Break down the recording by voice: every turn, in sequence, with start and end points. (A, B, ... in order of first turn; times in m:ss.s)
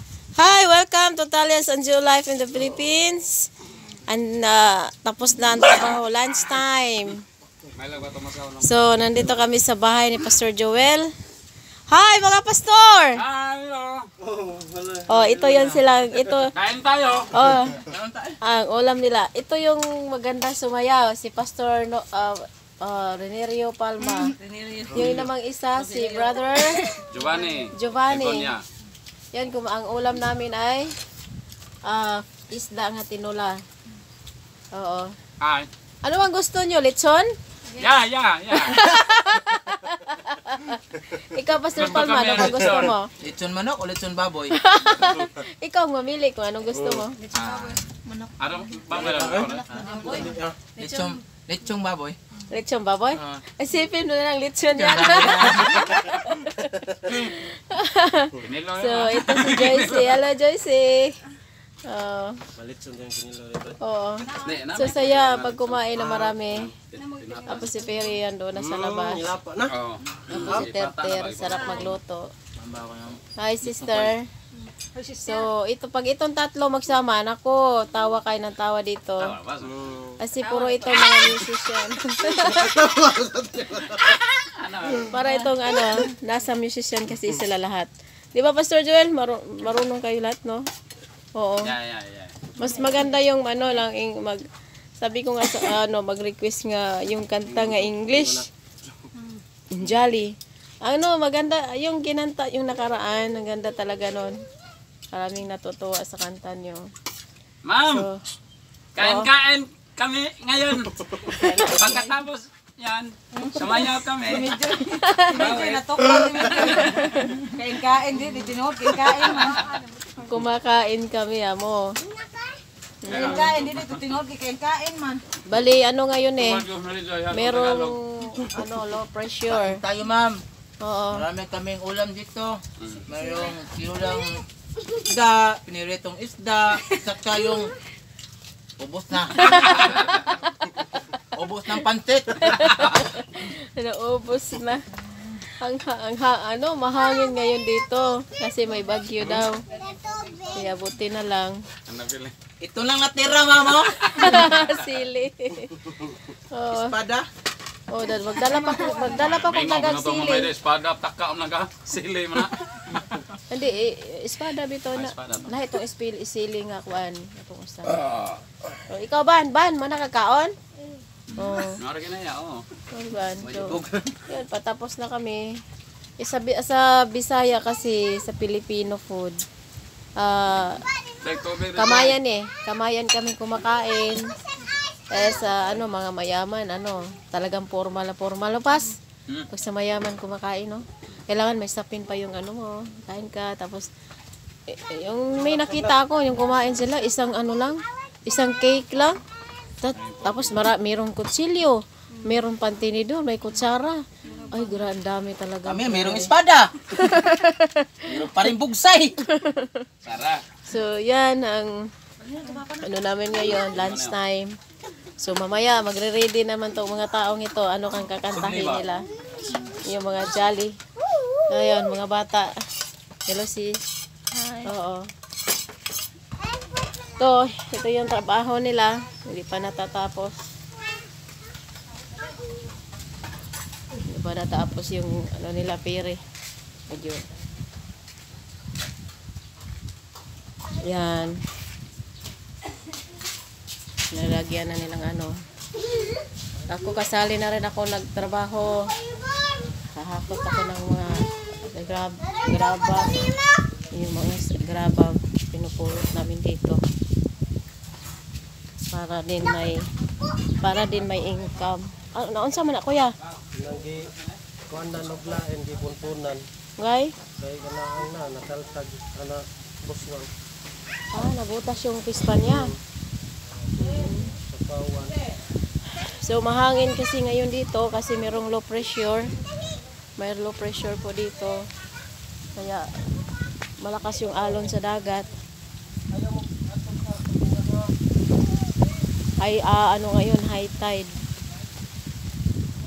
0:00.4-0:03.5 A
0:04.1-0:07.2 A
0:07.8-0:08.7 B
0:08.6-0:11.1 A
0:11.9-0:13.2 A
0:13.2-0:14.1 B
0:14.2-0:15.8 C
0:15.1-0:16.5 A
0:16.5-0:17.3 B
0:17.3-0:17.8 A
0:17.8-0:18.4 D
0:18.4-0:24.4 A
0:24.1-0:25.0 E
0:24.9-0:27.0 A
0:24.9-0:25.3 B
0:25.8-0:27.5 E
0:27.1-0:28.6 B
0:27.7-0:28.5 A
0:29.3-0:30.9 A
0:31.8-0:33.6 A
0:34.7-0:35.2 A
0:35.4-0:35.7 B
0:36.0-0:37.3 A
0:37.8-0:38.8 B
0:38.5-0:43.1 A
0:41.8-0:43.0 B
0:43.2-0:44.6 D
0:44.5-0:47.2 A
0:47.2-0:48.3 E
0:47.3-0:47.8 B
0:48.4-0:50.3 B
0:48.9-0:50.8 C
0:49.5-0:51.2 E
0:50.8-0:52.2 D
0:52.5-1:01.2 A
0:54.7-0:55.9 D
0:58.4-1:00.2 B
1:01.8-1:02.4 A
1:02.6-1:03.8 C
1:03.8-1:06.7 A
1:04.4-1:07.8 B
1:06.0-1:06.4 C
1:07.0-1:07.7 E
1:07.5-1:09.3 A
1:08.6-1:09.7 C
1:09.7-1:12.0 B
1:10.3-1:12.3 A
1:10.3-1:10.7 D
1:12.6-1:13.2 D
1:13.4-1:14.3 A
1:13.8-1:14.1 B
1:14.9-1:15.4 E
1:15.2-1:19.3 A
1:19.2-1:19.8 B
1:19.7-1:20.0 C
1:20.2-1:22.8 A
1:20.5-1:20.8 E
1:22.5-1:24.0 D
1:23.7-1:25.3 B
1:24.9-1:30.6 A
1:31.4-1:31.7 A
1:31.6-1:32.5 B
1:32.6-1:34.4 A
1:35.0-1:38.5 A
1:37.5-1:38.5 C
1:39.7-1:40.3 A
1:40.8-1:44.4 A
1:45.1-1:46.9 A
1:47.6-1:48.1 B
1:47.8-1:48.2 A
1:49.0-1:54.7 B
1:49.0-1:49.3 A
1:51.2-1:52.2 A
1:53.3-2:00.1 E
1:54.8-1:55.6 A
1:55.3-1:57.2 B
1:56.6-1:57.3 A
1:59.0-1:59.8 B
2:00.2-2:02.0 A
2:02.1-2:05.2 E
2:03.0-2:03.6 A
2:03.1-2:04.1 B
2:05.5-2:06.6 A
2:06.4-2:08.5 B
2:07.3-2:09.8 A
2:09.5-2:10.4 D
2:10.8-2:11.3 A
2:11.1-2:17.7 D
2:12.8-2:13.1 B
2:18.8-2:19.6 D
2:19.3-2:21.2 A
2:19.6-2:20.3 B
2:21.3-2:22.9 D
2:22.4-2:24.9 A
2:25.6-2:29.7 A
2:29.8-2:30.5 E
2:30.4-2:31.6 A
2:31.9-2:32.4 B
2:32.6-2:34.1 D
2:33.9-2:35.0 B
2:34.0-2:35.8 A
2:36.4-2:37.0 A
2:36.7-2:37.3 D
2:37.9-2:40.5 A
2:39.1-2:43.3 B
2:43.5-2:48.0 A
2:45.0-2:45.5 B
2:47.9-2:48.4 B
2:48.9-2:50.6 A
2:51.3-2:52.6 B
2:51.4-2:51.8 A
2:52.9-2:53.8 A
2:53.4-2:53.8 B
2:53.5-2:54.2 D
2:54.3-2:55.6 A
2:56.2-2:59.4 A
3:00.2-3:00.8 A
3:01.2-3:02.2 B
3:01.8-3:04.3 A
3:05.1-3:09.0 A
3:09.5-3:13.9 A
3:14.7-3:19.2 A
3:15.4-3:15.9 C
3:19.8-3:26.3 A
3:19.9-3:20.7 B
3:24.4-3:24.7 E
3:25.7-3:26.8 D
3:26.9-3:28.5 A
3:28.1-3:29.2 D
3:29.2-3:29.9 A
3:30.0-3:30.4 B
3:30.6-3:31.9 A
3:32.2-3:32.9 E
3:32.7-3:34.6 A
3:33.3-3:34.1 B
3:35.2-3:39.0 A
3:38.3-3:38.8 B
3:39.7-3:40.8 A
3:41.5-3:42.5 A
3:43.3-3:43.8 A
3:44.3-3:44.6 E
3:44.6-3:45.1 A
3:47.0-3:50.4 A
3:54.1-3:56.2 A
3:56.9-3:57.3 A
4:00.8-4:01.4 A
4:04.1-4:05.4 A
4:06.7-4:08.9 A
4:10.0-4:13.2 A
4:13.9-4:16.8 A
4:18.9-4:19.8 A
4:20.6-4:23.2 A
4:23.5-4:24.0 C
4:24.7-4:26.5 C
4:26.8-4:27.2 A
4:27.4-4:30.3 C
4:31.1-4:32.7 A
4:32.4-4:32.8 C
4:33.5-4:35.2 C
4:33.8-4:34.4 A
4:35.9-4:39.4 A
4:40.2-4:41.6 A
4:42.6-4:42.9 A
4:43.8-4:45.3 A
4:46.1-4:47.9 C
4:49.4-4:51.1 A